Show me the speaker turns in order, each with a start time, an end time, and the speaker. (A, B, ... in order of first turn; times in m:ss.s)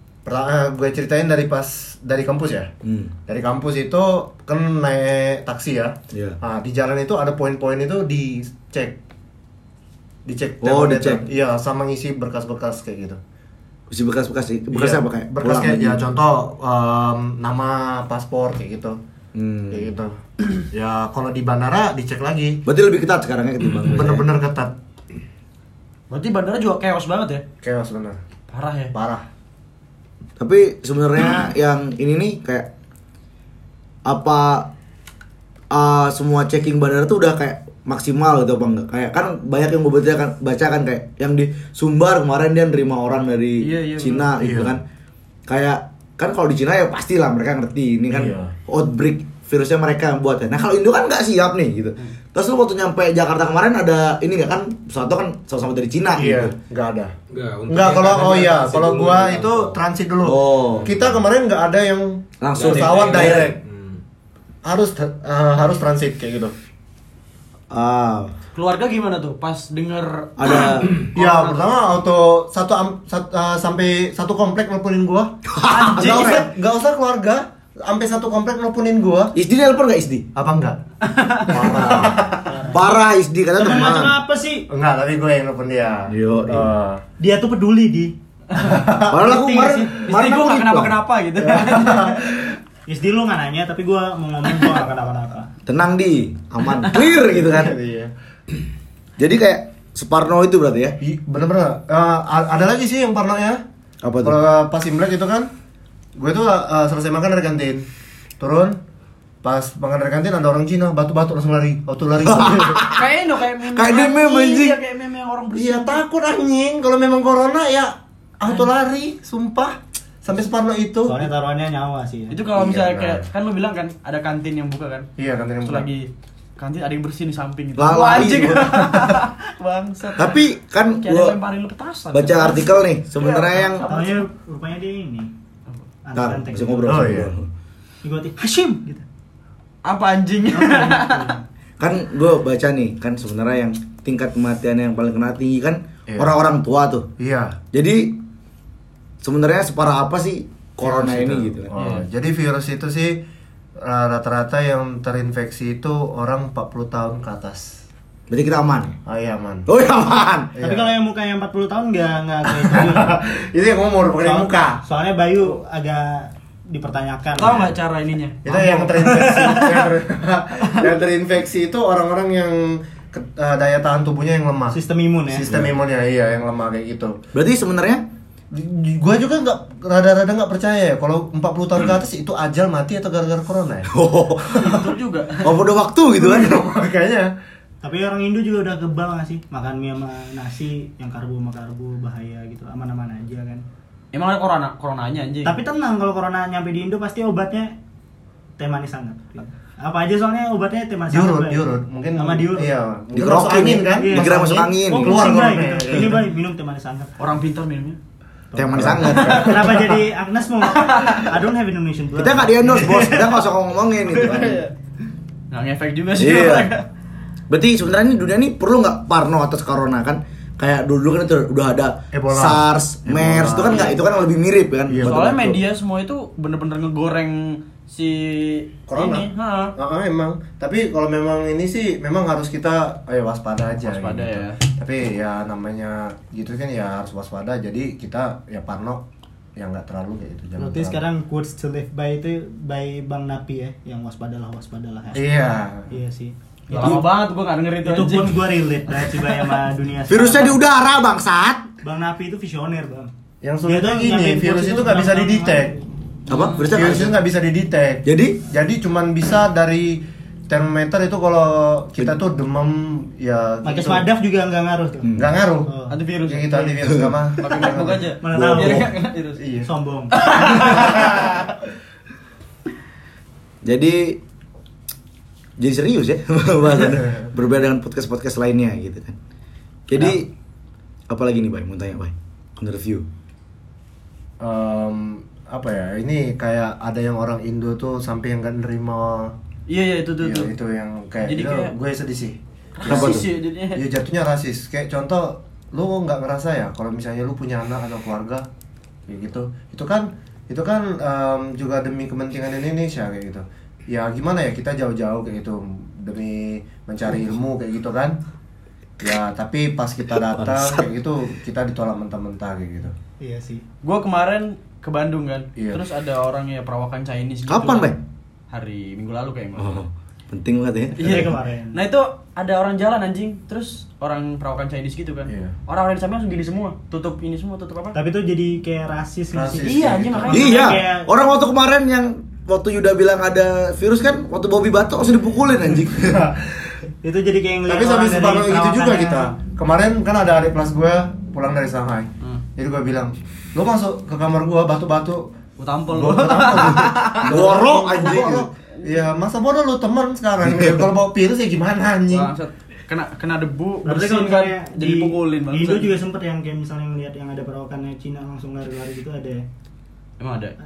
0:00.2-0:02.7 A
0:02.8-0:03.1 B
0:03.3-0:09.0 A
0:06.1-0:06.4 B
0:10.2-0:13.2 A
0:10.6-0:11.2 B
0:13.9-0:16.0 B
0:14.7-0:19.0 A
0:19.3-0:19.9 B
0:19.7-0:20.2 A
0:20.7-0:22.6 A
0:22.6-0:24.3 B
0:23.8-0:24.7 A
0:26.1-0:27.4 C
0:27.6-0:28.2 A
0:28.5-0:28.9 C
0:28.9-0:29.2 A
0:30.4-0:32.7 B
0:34.0-0:34.7 B
0:35.7-0:44.8 B
0:43.6-0:44.4 C
0:44.4-0:44.8 A
0:45.5-0:56.5 B
0:48.1-0:48.5 A
0:56.1-0:57.1 A
0:57.3-0:59.8 D
0:57.7-1:03.6 A
1:00.2-1:00.9 B
1:00.7-1:01.2 D
1:02.4-1:03.5 B
1:02.6-1:04.0 D
1:04.6-1:06.5 A
1:07.7-1:08.3 B
1:08.5-1:11.7 C
1:10.4-1:11.0 B
1:11.0-1:19.3 A
1:15.4-1:16.5 B
1:19.3-1:20.3 B
1:20.3-1:20.8 A
1:21.0-1:21.9 C
1:21.4-1:22.6 A
1:21.8-1:24.2 B
1:22.4-1:22.8 E
1:23.6-1:24.7 E
1:24.7-1:27.0 A
1:26.1-1:26.7 B
1:27.2-1:28.1 E
1:28.6-1:29.3 A
1:29.1-1:31.0 B
1:29.2-1:29.9 E
1:30.0-1:32.3 C
1:31.4-1:32.5 A
1:32.9-1:35.5 E
1:35.6-1:37.8 B
1:37.2-1:38.1 A
1:39.2-1:41.0 B
1:41.0-1:43.6 A
1:44.0-1:44.4 B
1:44.2-1:45.5 A
1:46.2-1:47.9 A
1:48.4-1:48.8 A
1:49.4-1:52.8 A
1:52.2-1:53.1 B
1:52.8-1:56.0 C
1:53.6-1:54.8 B
1:55.5-2:01.3 A
2:01.0-2:02.4 E
2:02.3-2:05.1 C
2:02.5-2:03.2 A
2:05.2-2:05.9 A
2:05.6-2:10.4 C
2:07.8-2:09.0 B
2:10.2-2:11.4 B
2:10.9-2:14.2 C
2:12.1-2:13.8 B
2:13.8-2:15.3 E
2:16.0-2:17.2 E
2:16.1-2:17.5 B
2:16.8-2:17.3 A
2:18.0-2:19.0 E
2:19.8-2:21.4 C
2:20.5-2:21.4 E
2:21.8-2:27.1 B
2:26.1-2:26.4 A
2:27.2-2:27.6 A
2:27.7-2:28.2 B
2:29.2-2:31.7 B
2:30.8-2:33.2 A
2:31.7-2:32.0 C
2:33.8-2:37.8 A
2:38.3-2:39.0 B
2:39.0-2:39.7 A
2:39.6-2:40.5 B
2:40.6-2:40.9 A
2:40.6-2:43.2 E
2:42.7-2:44.8 A
2:44.2-2:47.7 E
2:47.4-2:48.4 C
2:48.4-2:57.2 A
2:48.5-2:49.9 E
2:54.7-2:55.6 E
2:55.5-2:55.7 B
2:57.3-2:58.0 B
2:58.5-3:03.9 A
3:03.9-3:04.9 B
3:04.5-3:05.5 C
3:05.4-3:06.7 B
3:06.1-3:07.3 A
3:07.8-3:13.6 E
3:14.1-3:15.6 C
3:15.4-3:17.7 E
3:18.6-3:22.8 E
3:21.1-3:26.3 A
3:23.1-3:25.3 B
3:23.9-3:27.1 E
3:27.2-3:28.0 C
3:28.5-3:33.3 E
3:28.6-3:29.8 B
3:28.7-3:29.8 A
3:29.0-3:29.6 C
3:30.7-3:31.3 C
3:32.2-3:34.6 B
3:34.1-3:34.7 C
3:35.5-3:36.8 C
3:36.2-3:36.7 B
3:37.5-3:45.6 B
3:42.1-3:44.0 A
3:44.9-3:45.2 A
3:45.0-3:49.7 C
3:48.9-3:59.0 A
3:53.8-3:54.6 C
3:59.6-4:01.0 A
4:00.6-4:05.3 E
4:05.1-4:05.9 A
4:05.9-4:07.0 E
4:06.7-4:08.6 C
4:07.8-4:10.6 E
4:10.1-4:11.7 B
4:11.8-4:13.1 E
4:13.4-4:15.7 A
4:13.6-4:15.9 E
4:16.3-4:17.2 B
4:16.3-4:16.8 C
4:16.7-4:24.1 A
4:18.0-4:18.4 B
4:23.6-4:25.1 E
4:25.0-4:25.3 B
4:25.2-4:25.7 A
4:25.7-4:26.0 E
4:25.9-4:26.8 C
4:26.2-4:28.1 A
4:26.8-4:27.2 B
4:27.4-4:29.4 C
4:28.2-4:28.9 E
4:28.3-4:28.9 B
4:29.4-4:29.7 A
4:29.6-4:31.0 E
4:30.1-4:31.5 C
4:33.6-4:34.2 B
4:35.6-4:39.2 B
4:39.9-4:40.3 B
4:41.1-4:43.0 B
4:44.4-4:49.3 A
4:49.7-4:50.5 C
4:50.2-4:58.5 A
4:51.2-4:51.7 C
4:52.7-4:53.8 C
4:52.8-4:53.2 B
4:59.1-5:08.2 A
5:09.0-5:12.9 A
5:10.1-5:10.9 B
5:13.2-5:13.6 E
5:13.8-5:17.9 C
5:15.6-5:15.8 A
5:17.5-5:18.0 B
5:18.5-5:19.8 C
5:19.6-5:21.4 B
5:21.0-5:28.0 C
5:21.0-5:21.8 E
5:25.3-5:25.5 A
5:27.9-5:31.1 E
5:29.3-5:30.6 A
5:29.6-5:30.8 C
5:30.3-5:36.3 B
5:36.0-5:36.4 A
5:37.0-5:39.3 E
5:37.7-5:45.3 A
5:45.6-5:48.9 C
5:45.9-5:52.3 A
5:47.2-5:48.5 B
5:50.4-5:50.8 B
5:52.1-5:56.0 C
5:53.8-5:59.4 E
6:00.2-6:00.5 C